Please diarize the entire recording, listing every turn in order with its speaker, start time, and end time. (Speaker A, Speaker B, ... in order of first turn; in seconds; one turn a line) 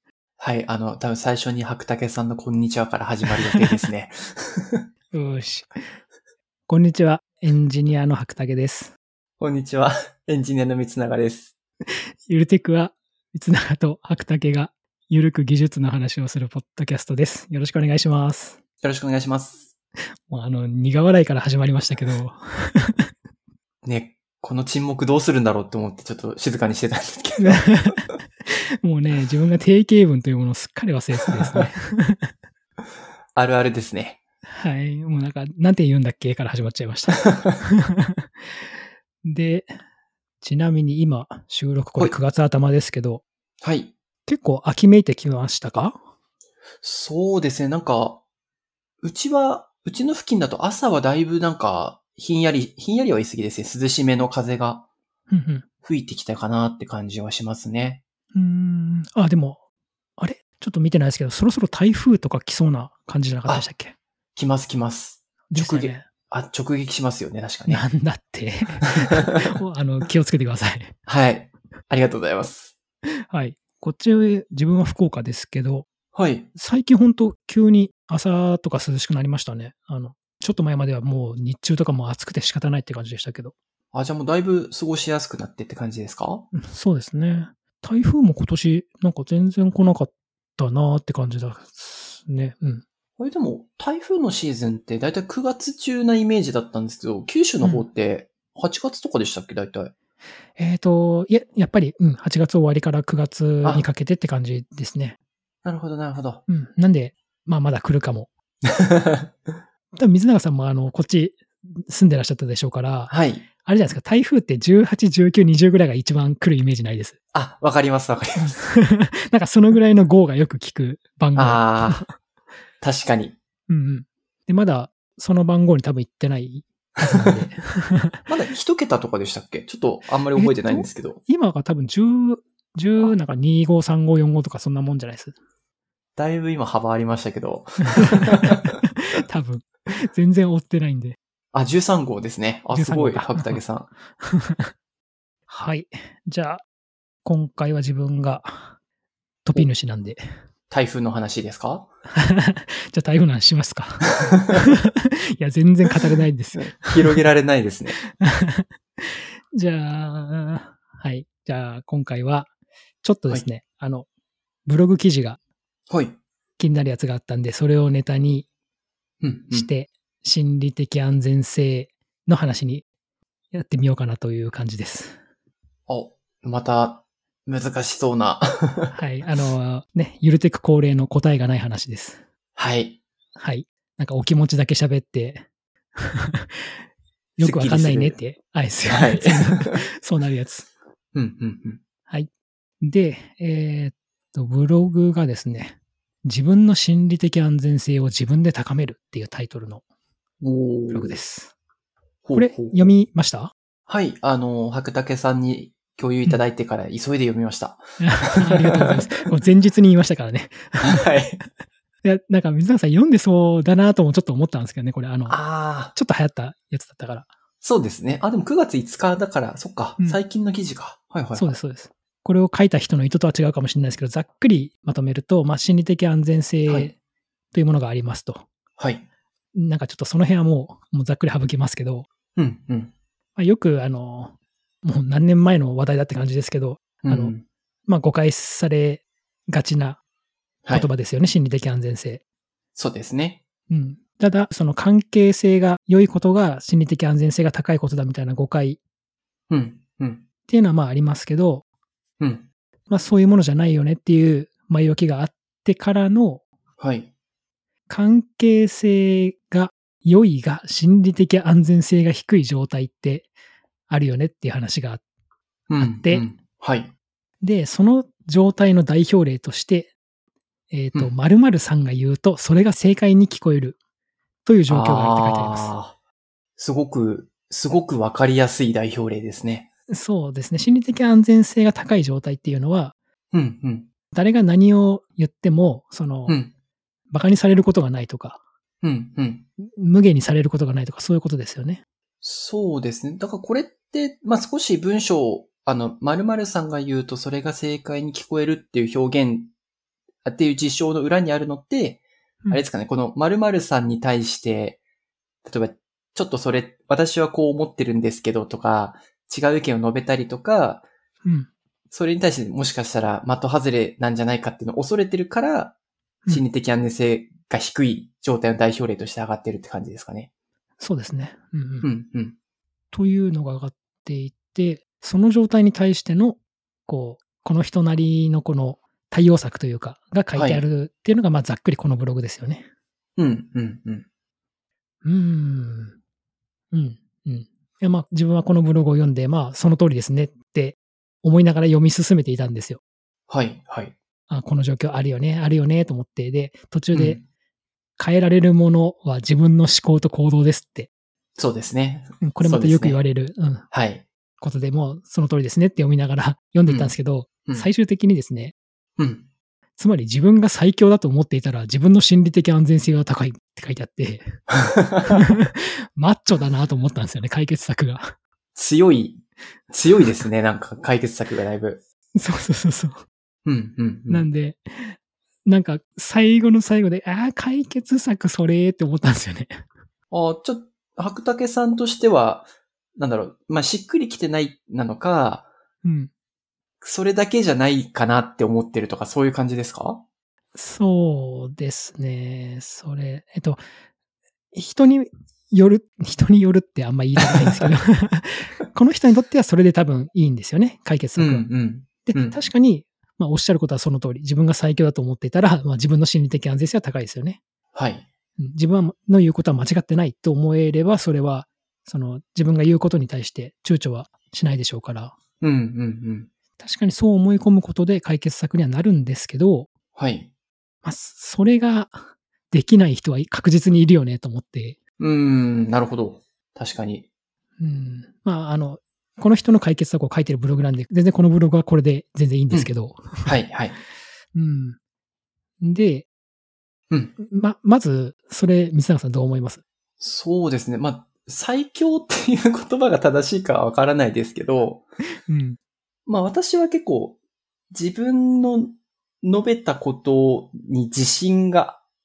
Speaker A: 0.4-4.9
Speaker B: 5.1-5.7
Speaker B: 6.7-8.9
Speaker A: 9.4-11.5
Speaker B: 12.2-18.6
Speaker A: 18.8-19.7
Speaker B: 20.3-23.1
Speaker A: 23.8-27.7
Speaker B: 27.4-32.3
Speaker A: 33.3-34.2
Speaker B: 34.5-38.7
Speaker B: 39.2-39.7
Speaker B: 40.4-43.2
Speaker A: 43.6-43.9
Speaker B: 44.3-46.0
Speaker A: 46.8-48.2
Speaker A: 49.0-54.8
Speaker B: 55.3-55.6
Speaker A: 55.8-58.0
Speaker B: 58.3-59.6
Speaker B: 60.2-64.0
Speaker A: 64.3-67.8
Speaker B: 65.5-66.0
Speaker B: 67.7-70.9
Speaker A: 69.0-69.5
Speaker A: 71.1-72.7
Speaker B: 73.3-75.9
Speaker A: 76.1-76.5
Speaker B: 76.5-83.5
Speaker A: 83.9-86.5
Speaker B: 86.5-92.8
Speaker A: 93.2-99.9
Speaker B: 97.6-97.9
Speaker B: 100.6-105.2
Speaker A: 105.6-106.4
Speaker B: 106.5-108.3
Speaker A: 108.7-109.3
Speaker B: 109.9-113.1
Speaker A: 113.1-113.5
Speaker B: 113.6-117.2
Speaker A: 117.3-118.6
Speaker B: 118.7-122.1
Speaker A: 121.3-122.0
Speaker A: 122.8-123.3
Speaker B: 123.7-128.3
Speaker A: 128.3-131.2
Speaker B: 130.3-135.3
Speaker A: 136.2-138.7
Speaker B: 137.9-141.2
Speaker A: 141.5-143.9
Speaker B: 142.7-143.6
Speaker B: 144.2-144.7
Speaker B: 145.5-146.6
Speaker B: 147.2-148.7
Speaker B: 149.4-150.2
Speaker A: 150.7-151.9
Speaker B: 152.1-157.2
Speaker A: 154.2-154.6
Speaker A: 156.6-158.0
Speaker B: 158.2-162.5
Speaker B: 163.0-164.1
Speaker B: 164.7-165.4
Speaker A: 165.9-166.2
Speaker B: 166.6-168.5
Speaker A: 169.2-169.7
Speaker B: 169.5-172.8
Speaker B: 173.5-175.2
Speaker A: 175.9-178.9
Speaker B: 178.9-182.2
Speaker A: 182.6-183.0
Speaker B: 183.4-185.4
Speaker B: 186.0-186.7
Speaker B: 187.4-190.7
Speaker A: 187.4-188.2
Speaker A: 188.9-189.8
Speaker A: 191.1-191.8
Speaker B: 192.8-199.8
Speaker A: 200.4-201.2
Speaker B: 200.9-201.5
Speaker A: 202.2-202.9
Speaker B: 202.3-203.5
Speaker A: 203.9-208.9
Speaker B: 208.0-211.1
Speaker A: 210.8-211.4
Speaker B: 212.0-215.4
Speaker A: 215.3-215.9
Speaker B: 215.9-217.3
Speaker A: 217.6-221.6
Speaker B: 221.3-226.9
Speaker A: 226.7-226.9
Speaker B: 227.5-228.4
Speaker A: 228.8-229.0
Speaker B: 229.5-232.1
Speaker A: 232.3-232.9
Speaker B: 233.3-234.3
Speaker B: 234.8-237.3
Speaker A: 237.0-237.4
Speaker B: 237.9-240.0
Speaker B: 240.7-242.2
Speaker A: 242.8-243.4
Speaker B: 243.7-248.8
Speaker A: 249.5-250.2
Speaker B: 250.5-251.6
Speaker A: 252.2-252.4
Speaker B: 252.9-256.4
Speaker A: 256.8-257.1
Speaker B: 257.9-263.3
Speaker B: 263.9-265.0
Speaker A: 265.7-266.9
Speaker B: 265.8-266.2
Speaker B: 267.4-269.9
Speaker B: 270.7-273.8
Speaker B: 274.4-275.7
Speaker A: 274.7-275.9
Speaker A: 276.6-279.7
Speaker B: 279.9-282.9
Speaker A: 283.3-283.9
Speaker B: 284.1-286.4
Speaker A: 286.3-286.5
Speaker B: 287.1-288.4
Speaker A: 288.8-289.4
Speaker B: 289.6-291.8
Speaker A: 292.2-299.5
Speaker A: 300.2-304.8
Speaker A: 305.4-310.9
Speaker B: 311.2-311.5
Speaker A: 311.9-315.7
Speaker A: 316.3-320.3
Speaker B: 320.8-321.9
Speaker A: 321.8-322.4
Speaker B: 322.9-332.6
Speaker A: 330.3-330.6
Speaker A: 333.2-334.1
Speaker B: 335.0-335.9
Speaker B: 336.7-342.8
Speaker A: 343.3-343.9
Speaker B: 344.3-347.2
Speaker A: 346.9-347.2
Speaker B: 348.0-350.9
Speaker A: 351.4-353.0
Speaker B: 352.2-353.7
Speaker A: 353.7-354.0
Speaker B: 354.4-358.5
Speaker A: 356.7-356.9
Speaker A: 359.0-359.2
Speaker B: 359.8-364.4
Speaker A: 364.5-365.2
Speaker B: 365.1-368.1
Speaker A: 368.5-371.8
Speaker B: 372.1-373.0
Speaker A: 373.4-374.2
Speaker B: 374.1-379.6
Speaker A: 380.1-385.5
Speaker B: 385.8-386.1
Speaker A: 386.8-390.0
Speaker B: 390.5-393.6
Speaker B: 394.5-401.5
Speaker A: 397.2-397.7
Speaker A: 401.2-402.4
Speaker B: 402.0-407.4
Speaker A: 407.7-408.1
Speaker B: 408.4-415.1
Speaker A: 415.4-416.3
Speaker B: 416.6-419.7
Speaker A: 419.9-420.3
Speaker B: 420.8-424.8
Speaker A: 425.0-427.1
Speaker B: 427.6-433.3
Speaker A: 433.2-433.8
Speaker B: 434.3-434.8
Speaker B: 435.6-436.1
Speaker B: 437.2-439.6
Speaker A: 440.0-444.8
Speaker B: 445.3-445.6
Speaker A: 446.1-447.2
Speaker A: 447.7-451.8